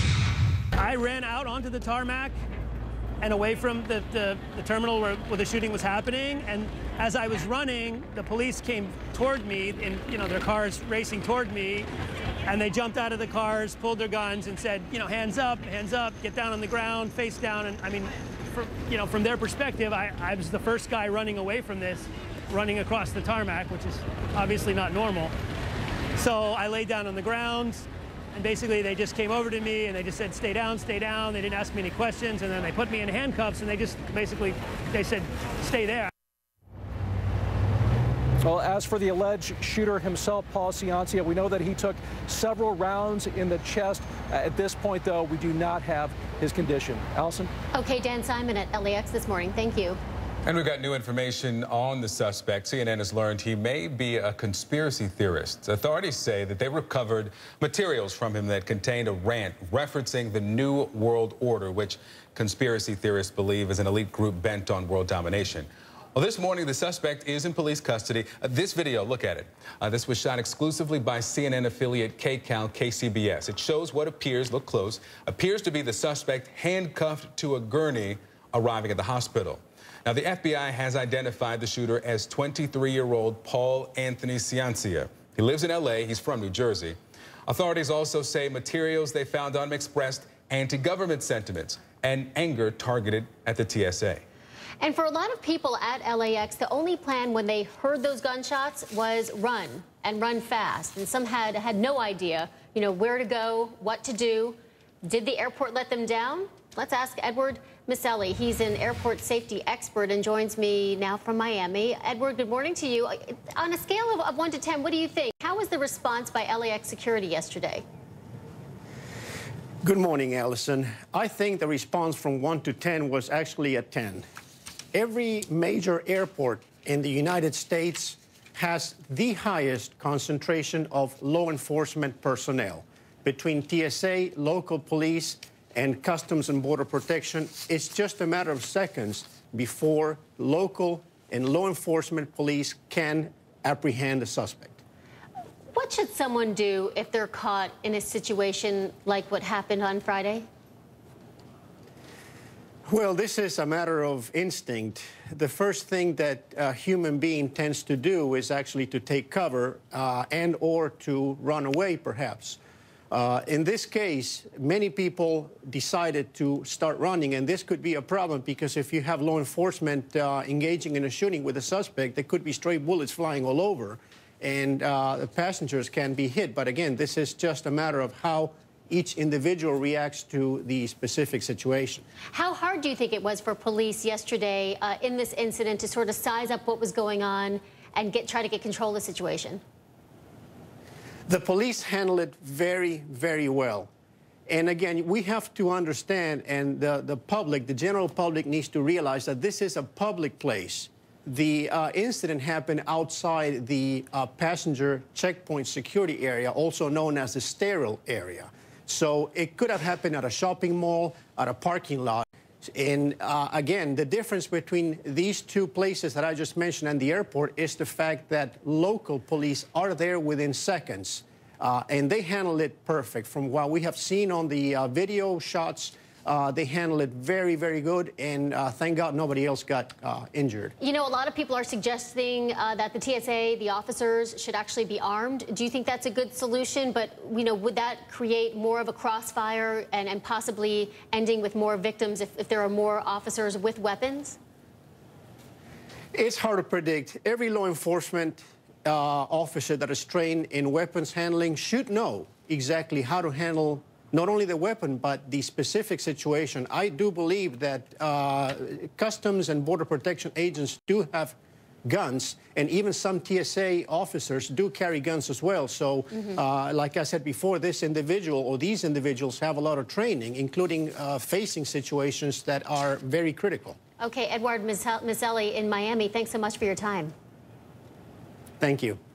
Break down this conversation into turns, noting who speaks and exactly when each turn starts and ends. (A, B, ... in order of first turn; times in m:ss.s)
0:00.8-0:02.3 A
0:03.2-0:11.9 A
0:12.5-0:25.3 A
0:26.2-0:36.1 A
0:38.4-0:47.5 B
0:47.7-0:50.0 C
0:50.4-1:34.2 D
1:34.8-1:57.8 C
1:59.8-2:04.2 E
2:04.9-2:24.8 E
2:25.7-2:30.4 C
2:32.9-2:42.6 E
2:43.1-3:02.0 E
3:02.3-3:09.6 C
3:11.3-3:13.9 E
3:14.5-3:50.7 E
3:50.8-4:04.4 C
4:06.1-4:33.8 E
4:34.0-4:37.1 C
4:38.6-4:39.0 E